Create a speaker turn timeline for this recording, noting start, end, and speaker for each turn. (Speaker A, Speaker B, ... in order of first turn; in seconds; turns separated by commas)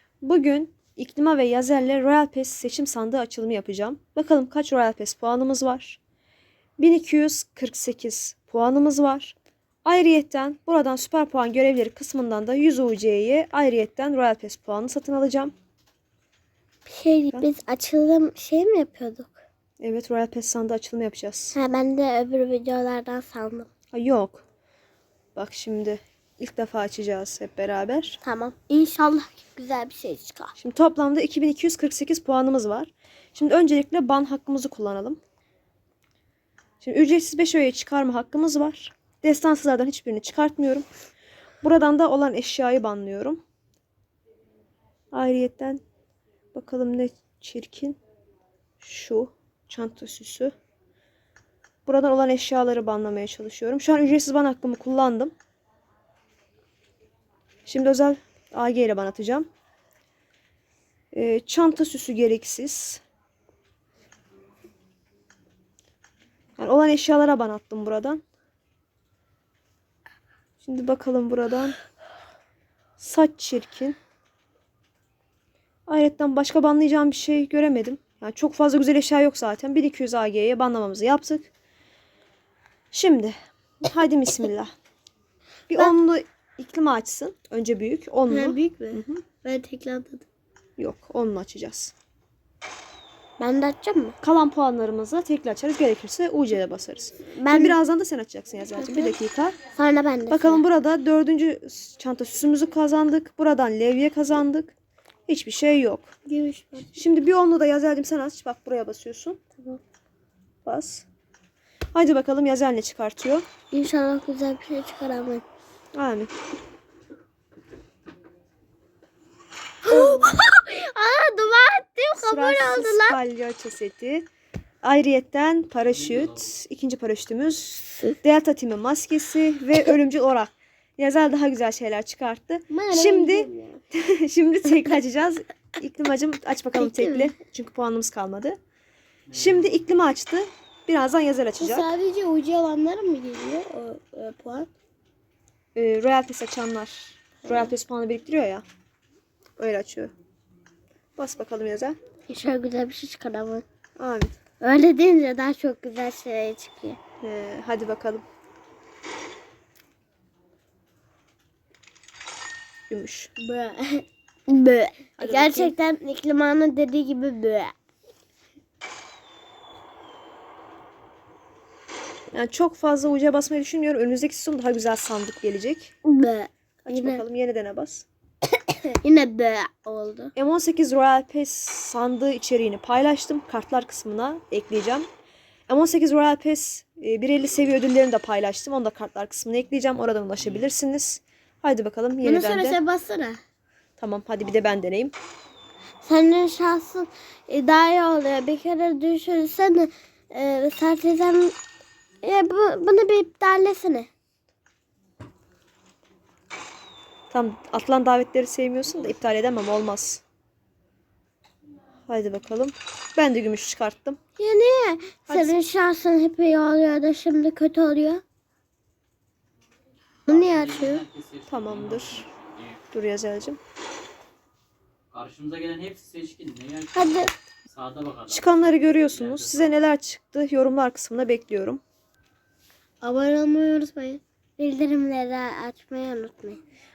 Speaker A: 0.2-6.0, Speaker A: 6.8-15.5, Speaker B: 16.9-19.4, Speaker A: 19.8-21.6, Speaker B: 21.5-23.7, Speaker A: 23.9-24.4, Speaker A: 25.3-28.2, Speaker B: 28.2-30.5, Speaker A: 30.6-35.2, Speaker A: 36.8-40.9, Speaker A: 41.6-43.4, Speaker A: 45.1-45.8, Speaker A: 46.5-48.0, Speaker A: 48.8-50.5, Speaker A: 51.9-55.3, Speaker A: 57.6-59.5, Speaker A: 61.1-63.0, Speaker A: 66.6-68.2, Speaker A: 70.6-71.8, Speaker A: 73.0-74.0, Speaker A: 75.9-81.5, Speaker A: 82.9-84.7, Speaker A: 85.7-89.2, Speaker B: 88.3-90.2, Speaker A: 90.8-91.9, Speaker B: 93.4-94.2, Speaker A: 94.2-99.6, Speaker B: 97.3-97.8, Speaker B: 98.7-99.2, Speaker B: 99.7-100.6, Speaker A: 100.3-104.7, Speaker A: 105.3-106.1, Speaker B: 106.2-106.9, Speaker A: 106.9-109.4, Speaker A: 110.6-111.0, Speaker A: 111.9-113.5, Speaker B: 113.7-115.4, Speaker A: 115.9-116.3, Speaker B: 119.8-123.2, Speaker A: 122.2-124.3, Speaker A: 124.8-138.6, Speaker C: 125.9-126.5, Speaker B: 132.7-133.8, Speaker B: 136.8-137.3, Speaker C: 139.3-139.7, Speaker A: 139.3-141.9, Speaker B: 141.6-144.7, Speaker A: 145.8-148.7, Speaker B: 147.4-147.7, Speaker A: 149.6-150.1, Speaker A: 151.2-152.0, Speaker B: 152.3-153.6, Speaker A: 154.0-154.4, Speaker B: 154.6-157.0, Speaker A: 157.2-158.2, Speaker A: 162.9-163.3, Speaker B: 163.4-167.7, Speaker A: 165.2-165.7, Speaker A: 172.3-175.9, Speaker B: 176.1-177.2, Speaker A: 176.9-178.1, Speaker B: 178.5-180.3, Speaker A: 180.4-185.1, Speaker A: 185.7-192.8, Speaker B: 192.2-193.4, Speaker A: 194.0-195.1, Speaker B: 196.0-201.6, Speaker B: 202.2-204.1, Speaker A: 207.3-210.2, Speaker A: 212.1-214.2, Speaker B: 214.4-218.2, Speaker A: 215.3-215.6, Speaker B: 220.3-221.1, Speaker C: 220.3-222.8, Speaker A: 221.5-222.2, Speaker A: 222.9-223.6, Speaker C: 225.1-229.8, Speaker B: 226.9-227.3, Speaker A: 228.3-231.8, Speaker B: 233.0-236.6